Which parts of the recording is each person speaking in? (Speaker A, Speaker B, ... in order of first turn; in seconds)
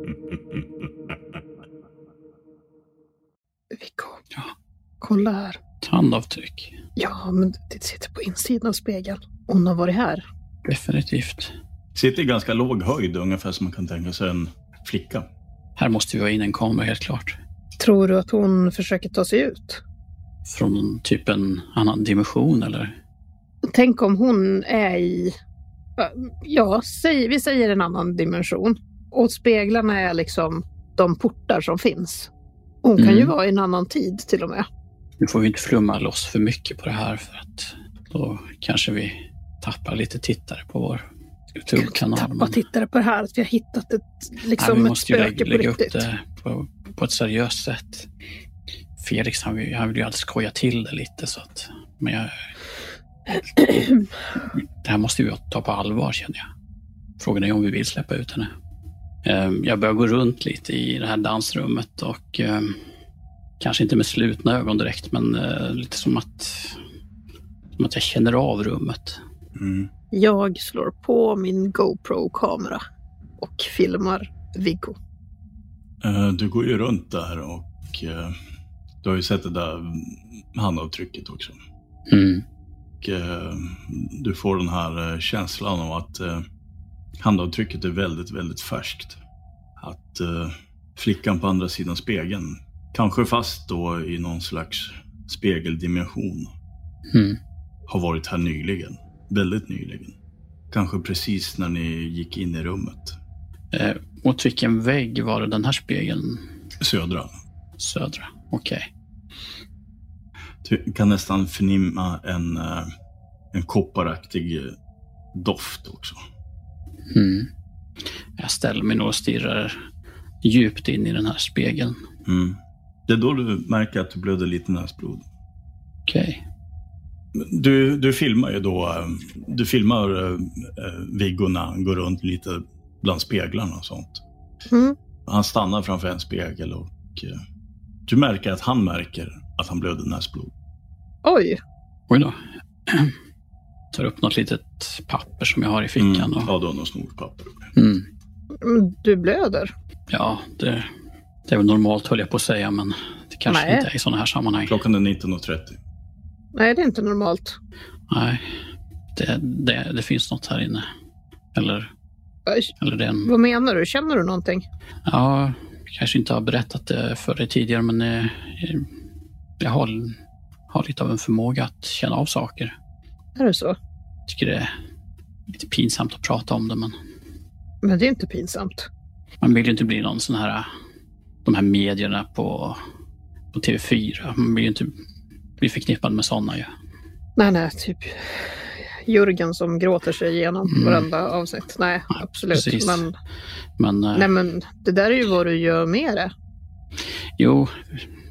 Speaker A: 3.7-4.2, 5.0-5.6, 7.0-10.2, 17.8-19.8, 23.6-25.4, 26.0-32.3, 32.8-34.7, 41.8-46.0, 70.1-72.8, 73.4-75.0, 134.7-135.0, 141.2-141.6, 148.6-149.7, 153.5-153.9, 156.6-157.6, 163.3-164.7, 173.4-173.8, 177.8-178.9, 187.4-188.5, 189.1-193.1, 194.2-196.3
Speaker B: 5.8-6.8, 10.7-11.5, 15.8-17.4, 20.5-22.9, 33.0-33.3, 35.2-41.1, 41.6-42.6, 44.6-48.1, 49.0-52.4, 54.6-56.5, 57.2-58.5, 59.2-62.8, 63.6-66.8, 67.8-69.2, 82.1-82.4, 97.1-97.4, 103.7-106.5, 107.8-108.9, 117.1-117.5, 118.4-119.9, 120.4-122.0, 126.1-126.4, 142.1-143.1, 143.9-146.5, 147.8-148.1, 150.1-150.9, 151.5-154.8, 158.1-158.4, 159.2-160.9, 161.5-161.9, 162.8-163.3, 165.1-168.9, 169.6-170.2, 170.7-172.8, 174.3-174.7, 175.5-177.0, 179.4-180.7, 181.4-182.8, 183.5-184.9, 185.6-186.7, 190.7-191.1, 192.5-193.1, 193.8-194.3, 197.4-198.0
Speaker C: 11.9-15.3, 69.6-69.9, 76.0-78.4, 79.0-81.6, 83.0-86.5, 87.2-89.2, 89.8-96.5, 97.9-100.2, 100.7-103.2, 106.8-107.3, 110.6-112.9, 113.5-114.8, 115.3-116.2, 122.3-125.2, 127.3-134.2, 135.3-137.4, 138.1-140.5, 146.0-147.6, 154.7-155.8